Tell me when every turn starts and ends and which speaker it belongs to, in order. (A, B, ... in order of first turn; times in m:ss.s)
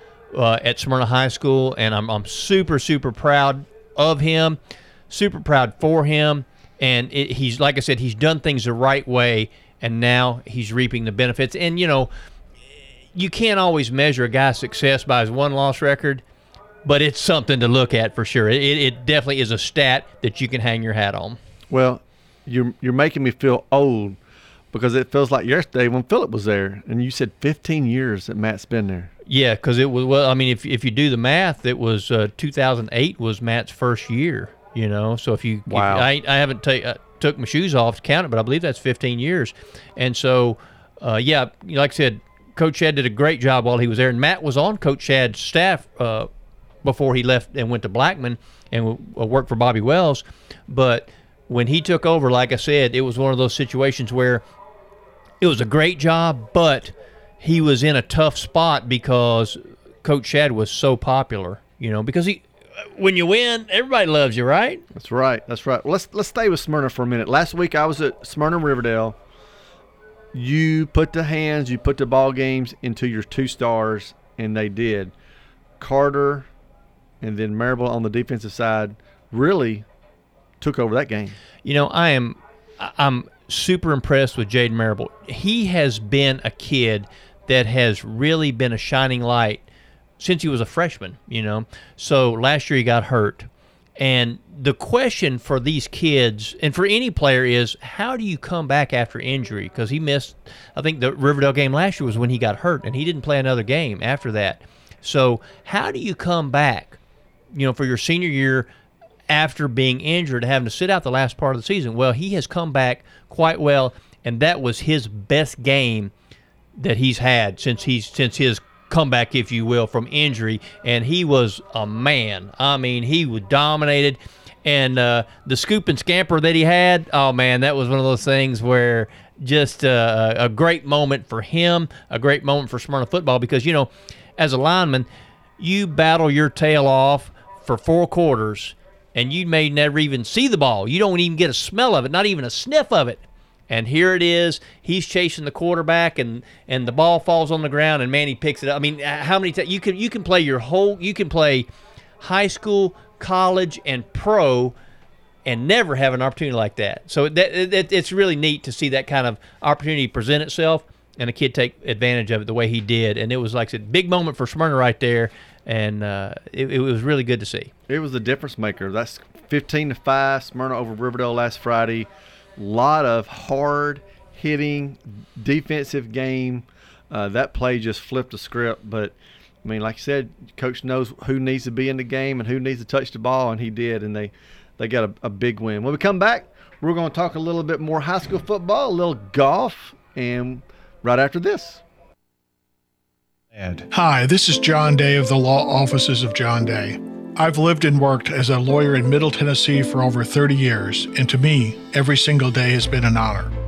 0:00.3-0:04.6 A
0:05.1-0:12.1 A
0:13.2-0:16.2 A
0:16.8-0:21.4 A
0:21.7-0:24.2 B
0:24.7-0:29.1 B
0:29.3-0:46.3 A
0:35.7-0:36.1 B
0:46.8-0:54.4 A
0:55.4-1:02.4 A
1:03.0-1:04.8 A
1:04.9-1:09.2 B
1:10.3-1:15.1 B
1:15.8-1:16.5 B
1:17.2-1:19.9 B
1:20.6-1:21.4 B
1:21.6-1:29.6 A
1:30.2-1:47.0 A
1:47.5-1:48.7 A
1:49.3-1:56.1 A
1:56.8-2:15.1 A
2:15.6-2:31.7 A
2:32.2-2:34.8 A
2:35.5-2:47.7 A
2:47.9-3:11.8 B
3:13.9-3:23.5 C